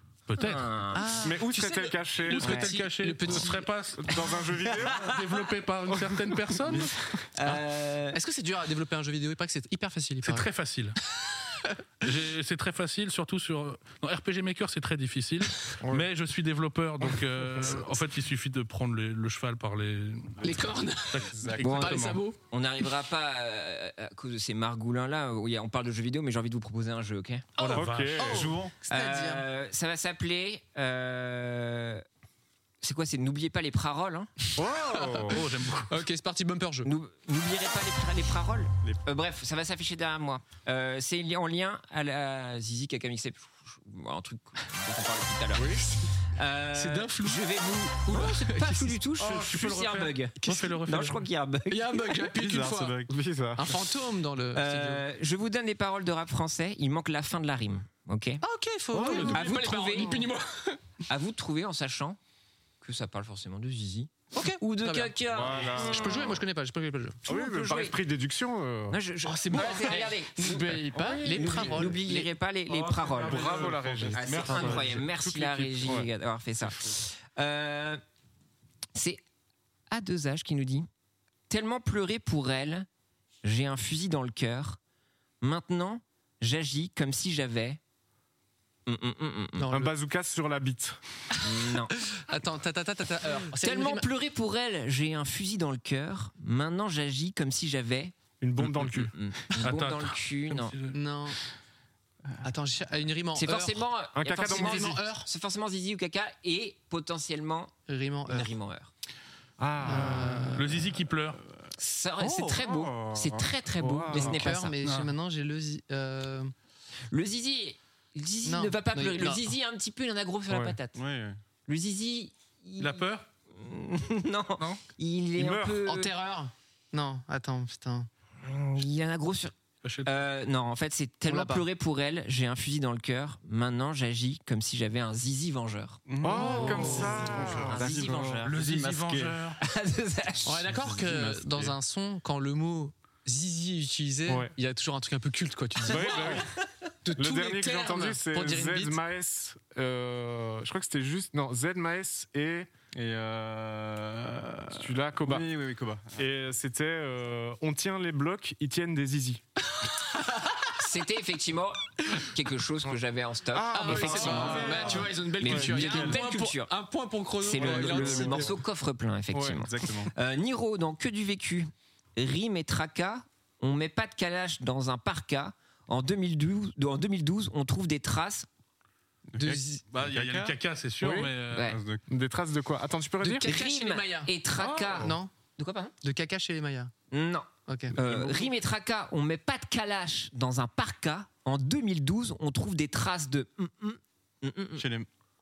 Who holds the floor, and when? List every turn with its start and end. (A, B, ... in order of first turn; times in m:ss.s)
0:00.3-0:00.7 A
0:00.4-0:01.2 B
0:00.9-0:03.7 C
0:01.2-0:02.6 D
0:02.3-0:04.1 A
0:02.4-0:02.7 B
0:04.0-0:05.1 D
0:04.8-0:05.1 B
0:04.8-0:06.9 A
0:06.1-0:06.8 D
0:07.3-0:08.2 B
0:07.4-0:10.4 C
0:10.2-0:11.0 A
0:12.0-0:22.2 A
0:15.8-0:16.1 D
0:17.6-0:17.8 D
0:20.4-0:22.4 C
0:21.6-0:27.5 B
0:27.6-0:28.3 A
0:27.6-0:29.4 C
0:27.7-0:28.5 D
0:28.3-0:28.8 E
0:28.9-0:32.0 B
0:32.8-0:34.3 B
0:34.6-0:35.5 D
0:34.6-0:35.4 C
0:35.3-0:36.0 A
0:35.9-0:36.9 C
0:36.8-0:52.3 B
0:45.5-0:45.9 D
0:46.7-0:49.0 C
0:49.2-0:51.3 A
0:50.4-0:50.9 C
0:51.7-0:53.0 C
0:52.4-0:53.1 E
0:53.1-0:53.8 D
0:53.6-0:55.0 C
0:54.5-0:58.4 B
0:58.4-1:00.8 C
0:58.9-1:00.0 D
0:59.3-1:00.3 B
1:01.1-1:02.2 B
1:02.8-1:06.3 B
1:04.3-1:07.2 C
1:05.3-1:06.4 D
1:07.2-1:09.0 D
1:07.3-1:08.0 B
1:08.9-1:18.0 B
1:09.2-1:12.3 C
1:10.9-1:11.9 D
1:12.7-1:15.0 E
1:13.1-1:16.1 D
1:18.9-1:19.2 B
1:19.9-1:20.9 B
1:21.5-1:22.9 B
1:23.4-1:24.8 B
1:25.4-1:27.8 B
1:28.8-1:29.7 B
1:29.6-1:29.9 C
1:29.7-1:31.0 D
1:31.4-1:31.9 B
1:31.9-1:34.1 C
1:33.6-1:38.1 B
1:38.4-1:39.1 D
1:38.8-1:40.7 B
1:39.6-1:41.0 A
1:40.9-1:41.4 C
1:42.4-1:43.8 C
1:43.4-1:47.8 B
1:44.1-1:45.0 D
1:44.4-1:45.3 C
1:47.9-1:48.5 C
1:48.3-1:48.9 B
1:49.6-1:50.7 D
1:49.8-1:50.6 C
1:50.6-1:51.4 A
1:51.4-1:54.4 E
1:51.8-1:54.7 B
1:53.8-1:54.3 D
1:54.1-1:56.5 C
1:54.8-1:55.1 A
1:57.1-2:01.0 B
1:58.4-1:59.5 C
2:00.5-2:00.8 D
2:00.9-2:01.4 E
2:01.6-2:06.1 B
2:02.8-2:03.2 A
2:05.4-2:05.8 D
2:05.8-2:08.1 C
2:08.4-2:09.5 B
2:09.8-2:10.1 A
2:10.0-2:18.6 B
2:11.2-2:11.6 C
2:16.0-2:19.4 E
2:16.2-2:18.4 D
2:16.3-2:17.0 C
2:18.4-2:19.6 A
2:19.6-2:20.7 B
2:20.4-2:26.4 C
2:20.6-2:21.8 E
2:24.3-2:24.5 D
2:25.9-2:26.5 D
2:25.9-2:26.3 E
2:27.0-2:29.0 C
2:27.2-2:32.7 D
2:32.9-2:36.2 E
2:34.7-2:35.5 D
2:36.2-2:39.4 D
2:40.8-2:46.7 B
2:43.5-2:45.6 D
2:43.7-2:48.6 C
2:44.3-2:44.8 E
2:45.4-2:46.2 E
2:47.4-2:58.5 B
2:47.6-2:48.5 E
2:49.3-2:49.6 D
2:49.5-2:50.1 E
2:59.3-3:00.6 E
2:59.4-2:59.8 C
2:59.9-3:01.7 A
3:01.0-3:01.3 D
3:01.5-3:01.8 B
3:01.6-3:02.0 E
3:02.1-3:03.5 D
3:03.2-3:04.3 C
3:03.4-3:05.9 B
3:04.6-3:05.1 D
3:05.0-3:05.3 C
3:06.0-3:06.9 C
3:07.1-3:14.9 B
3:07.7-3:07.9 C
3:08.0-3:08.4 E
3:14.8-3:15.1 E